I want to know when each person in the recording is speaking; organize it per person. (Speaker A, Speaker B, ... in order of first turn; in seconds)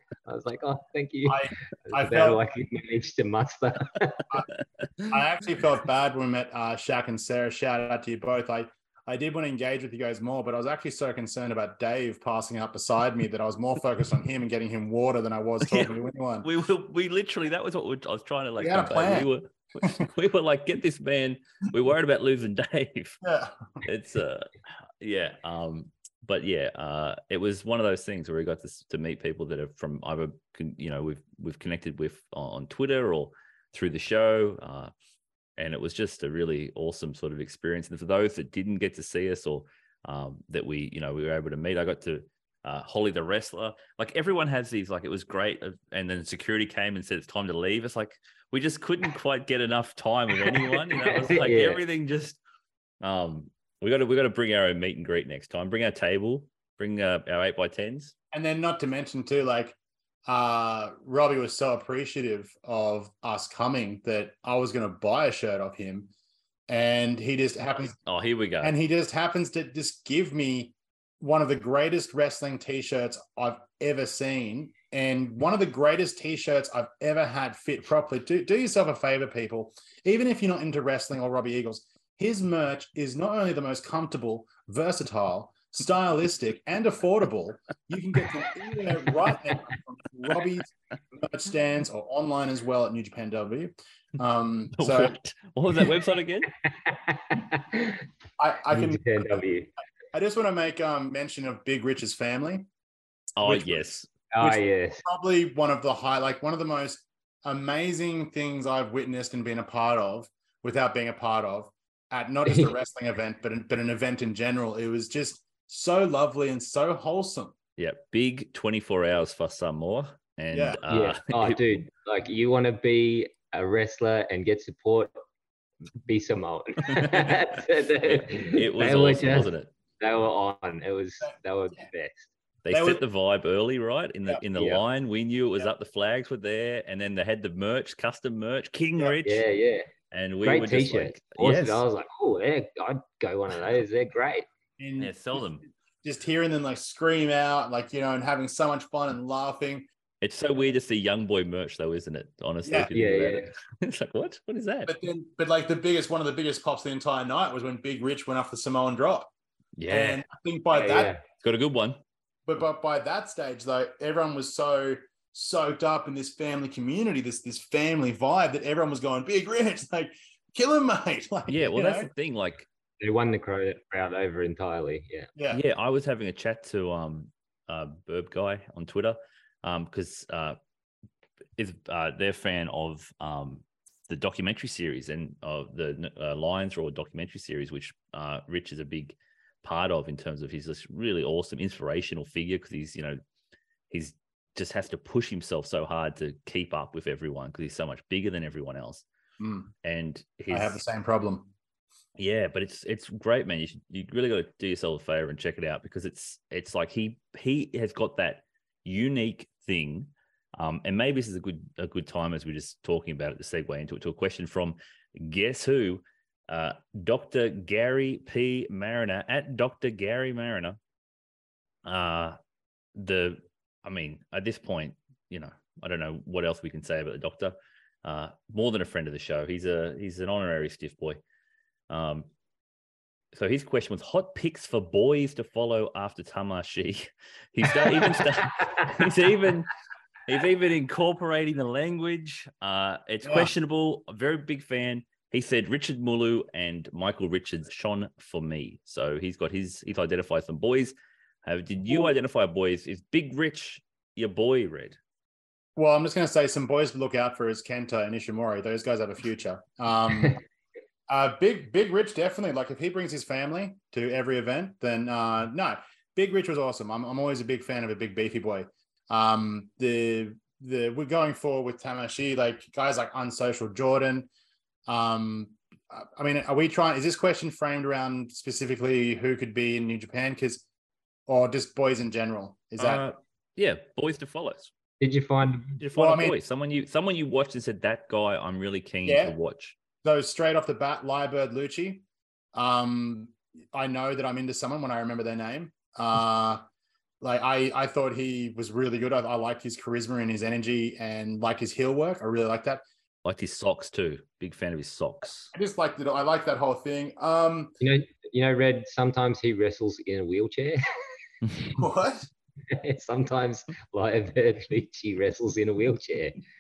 Speaker A: 0.3-4.2, 50.4-51.8, 96.6-98.0, 98.7-99.7, 104.3-105.1, 112.5-112.7, 120.9-125.1, 126.0-132.3, 134.5-134.8, 139.2-139.9, 140.4-144.5, 152.9-153.5, 160.7-161.2, 173.0-175.3, 285.0-285.8, 307.8-311.1, 312.7-316.4
Speaker B: 1.3-2.4, 5.1-16.5, 18.6-19.3, 23.2-23.8, 58.3-59.8, 60.3-66.1, 66.7-68.0, 68.6-95.2, 98.4-99.5, 100.1-102.7, 103.4-117.5, 120.5-120.8, 132.7-133.0, 144.8-145.4, 146.0-149.9, 152.7-152.9, 154.9-159.3, 159.9-161.1, 162.5-172.1, 175.4-175.6, 199.4-199.7, 200.5-201.5, 243.2-243.5, 255.8-260.4, 261.1-274.3, 274.9-280.6, 281.3-283.1, 285.9-286.4, 289.1-289.3, 290.0-292.0, 292.6-296.6, 297.2-302.8, 305.5-307.8, 311.7-312.3
Speaker C: 15.6-23.2, 23.8-34.9, 35.6-52.4, 53.0-58.1, 68.1-68.8, 94.8-96.5, 103.4-104.1, 117.8-121.6, 127.0-127.5, 128.0-129.7, 132.7-139.4, 140.1-141.8, 145.0-145.7, 150.2-154.9, 159.8-160.2, 161.4-162.0, 171.5-172.7, 175.5-180.6, 181.6-193.2, 193.9-199.1, 199.8-200.8, 202.2-220.8, 221.8-222.4, 222.9-231.2, 231.9-232.3, 233.3-239.7, 240.3-255.0, 282.8-284.7, 285.8-289.8, 303.2-305.5